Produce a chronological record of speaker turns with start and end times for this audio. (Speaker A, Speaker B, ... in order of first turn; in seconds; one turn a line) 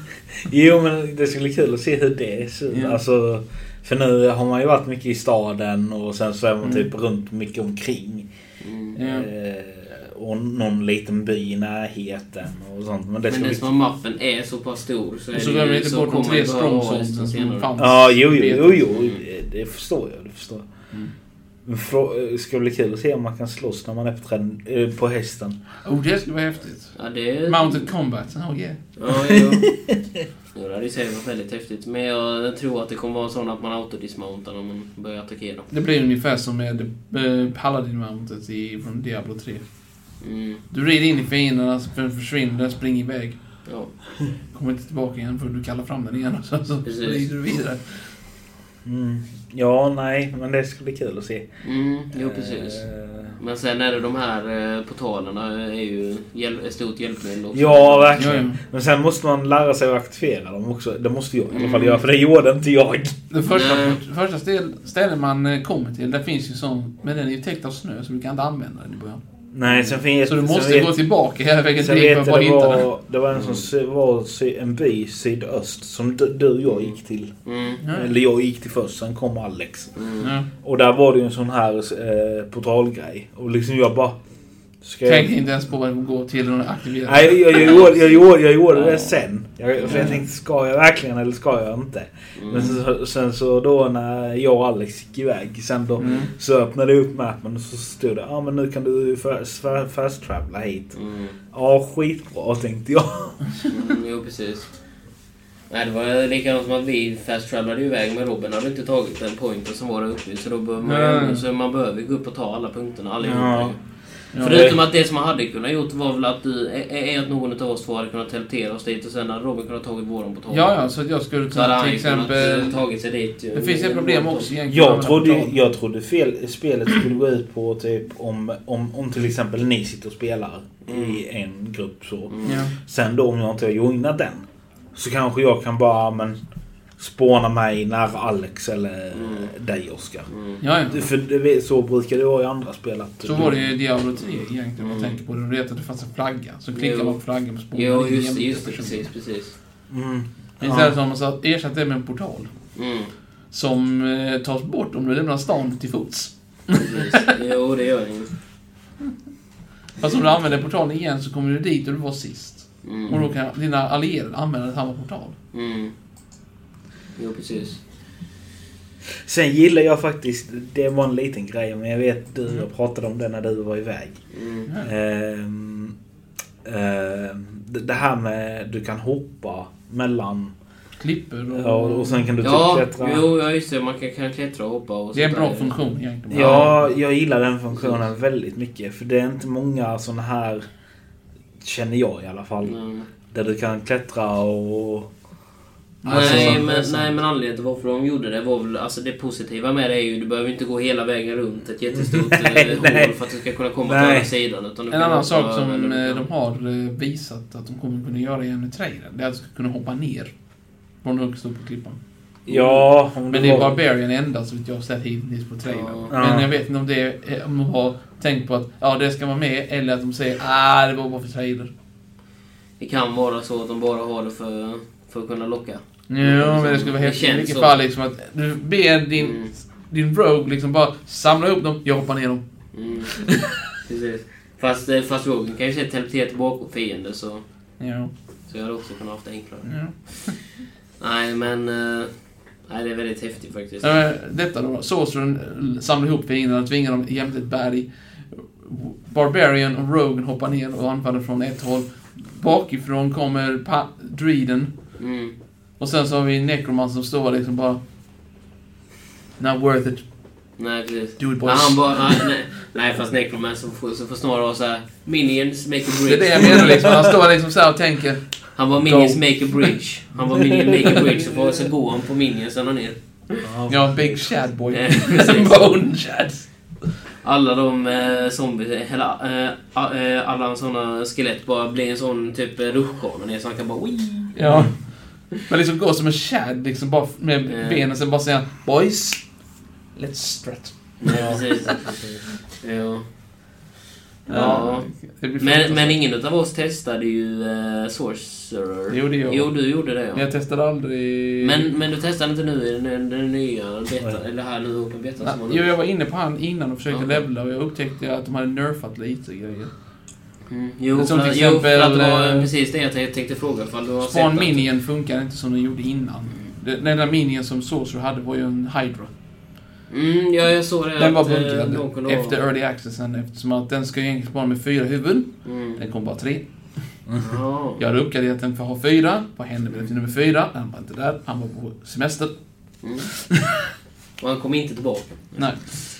Speaker A: 0.5-8.3
Speaker B: 2.7-3.0
Speaker B: 6.6-6.9
Speaker C: 8.6-8.9
Speaker A: 8.9-13.7
Speaker B: 9.0-9.3
Speaker C: 13.3-17.7
Speaker B: 15.3-18.8
Speaker A: 17.8-20.6
Speaker C: 18.9-19.2
Speaker A: 21.6-25.6
Speaker B: 25.8-26.9
Speaker C: 26.9-27.9
Speaker B: 27.4-28.8
Speaker C: 29.0-29.8
Speaker A: 29.1-29.9
Speaker C: 30.5-35.7
Speaker B: 35.7-39.6
Speaker C: 40.2-40.6
Speaker B: 40.7-43.4
Speaker B: 44.5-48.1
Speaker C: 46.8-47.3
Speaker A: 48.8-51.5
Speaker C: 51.6-52.9
Speaker A: 52.1-53.4
Speaker C: 53.4-58.2
Speaker A: 57.5-63.1
Speaker B: 58.2-58.6
Speaker C: 61.5-62.0
Speaker B: 63.3-69.2
Speaker C: 63.5-64.0
Speaker A: 69.5-70.9
Speaker C: 69.6-70.0
Speaker B: 70.2-72.9
Speaker A: 71.8-77.3
Speaker C: 73.3-73.7
Speaker C: 76.6-77.8
Speaker B: 77.8-78.1
Speaker A: 77.9-79.9
Speaker C: 79.9-80.3
Speaker B: 80.2-80.5
Speaker A: 80.6-84.2
Speaker A: 84.8-85.3
Speaker B: 85.0-87.8
Speaker A: 87.0-100.9
Speaker C: 87.5-88.2
Speaker B: 88.7-89.1
Speaker C: 89.7-90.1
Speaker B: 89.9-90.2
Speaker C: 92.3-92.8
Speaker B: 96.0-96.3
Speaker C: 96.0-96.3
Speaker C: 100.9-101.3
Speaker A: 101.5-103.4
Speaker C: 103.7-104.7
Speaker C: 105.7-113.8
Speaker B: 110.8-111.4
Speaker A: 113.2-113.7
Speaker B: 114.3-114.7
Speaker A: 114.4-114.8
Speaker C: 114.4-120.9
Speaker B: 120.5-122.8
Speaker C: 121.5-124.5
Speaker B: 123.5-125.5
Speaker A: 124.7-136.4
Speaker C: 130.8-131.2
Speaker C: 132.3-132.6
Speaker B: 132.4-132.7
Speaker A: 137.0-140.3
Speaker C: 139.1-139.5
Speaker C: 140.3-140.6
Speaker B: 140.6-141.1
Speaker A: 140.9-143.7
Speaker B: 143.2-149.1
Speaker C: 144.8-145.2
Speaker C: 146.7-147.2
Speaker C: 147.7-149.5
Speaker A: 149.9-150.9
Speaker B: 150.6-152.5
Speaker C: 152.8-153.1
Speaker B: 153.5-157.0
Speaker C: 156.7-158.3
Speaker B: 160.0-165.3
Speaker C: 162.8-163.3
Speaker C: 165.5-165.9
Speaker C: 167.2-167.8
Speaker A: 169.2-174.2
Speaker C: 174.3-174.7
Speaker A: 174.8-175.9
Speaker A: 176.6-180.5
Speaker B: 181.0-182.3
Speaker A: 181.5-183.3
Speaker C: 182.4-185.7
Speaker B: 185.1-186.9
Speaker C: 186.3-186.7
Speaker A: 186.3-190.6
Speaker C: 187.7-188.1
Speaker A: 191.6-192.7
Speaker C: 192.6-193.1
Speaker A: 193.3-195.1
Speaker B: 196.0-197.1
Speaker C: 196.1-206.2
Speaker A: 196.1-196.8
Speaker A: 202.0-203.1
Speaker A: 203.8-204.3
Speaker B: 204.9-210.3
Speaker B: 211.0-212.0
Speaker A: 212.4-213.8
Speaker C: 212.5-212.8
Speaker B: 213.3-221.7
Speaker C: 215.7-216.1
Speaker A: 216.1-216.5
Speaker C: 222.8-227.8
Speaker B: 226.1-232.4
Speaker C: 229.2-229.5
Speaker C: 232.7-237.4
Speaker B: 233.3-233.6
Speaker B: 237.8-238.1
Speaker C: 238.5-240.2
Speaker B: 239.6-240.4
Speaker C: 241.0-242.1
Speaker C: 242.7-243.9
Speaker B: 243.8-254.7
Speaker C: 255.0-255.3
Speaker B: 255.8-257.8
Speaker B: 259.4-260.1
Speaker C: 260.6-266.9
Speaker B: 261.2-262.2
Speaker B: 266.0-269.7
Speaker C: 268.6-273.4
Speaker A: 273.4-274.4
Speaker B: 273.7-276.9
Speaker C: 274.7-275.8
Speaker C: 277.2-284.4
Speaker B: 284.3-289.3
Speaker A: 284.4-284.7
Speaker C: 287.5-287.9
Speaker B: 289.9-291.6
Speaker C: 291.0-292.0
Speaker A: 291.1-292.2
Speaker C: 292.6-293.0
Speaker B: 294.3-296.0
Speaker C: 294.3-294.9
Speaker A: 294.3-294.6
Speaker C: 295.4-300.3
Speaker B: 298.9-301.7
Speaker C: 301.4-305.7
Speaker B: 305.2-309.7
Speaker C: 306.9-307.2
Speaker C: 310.5-314.7
Speaker B: 310.9-312.5
Speaker B: 314.0-319.1
Speaker C: 319.9-322.4
Speaker B: 320.9-326.4
Speaker C: 325.4-325.8
Speaker C: 327.2-327.8
Speaker B: 327.8-332.3
Speaker C: 332.8-333.1
Speaker C: 334.2-335.5
Speaker B: 335.4-335.7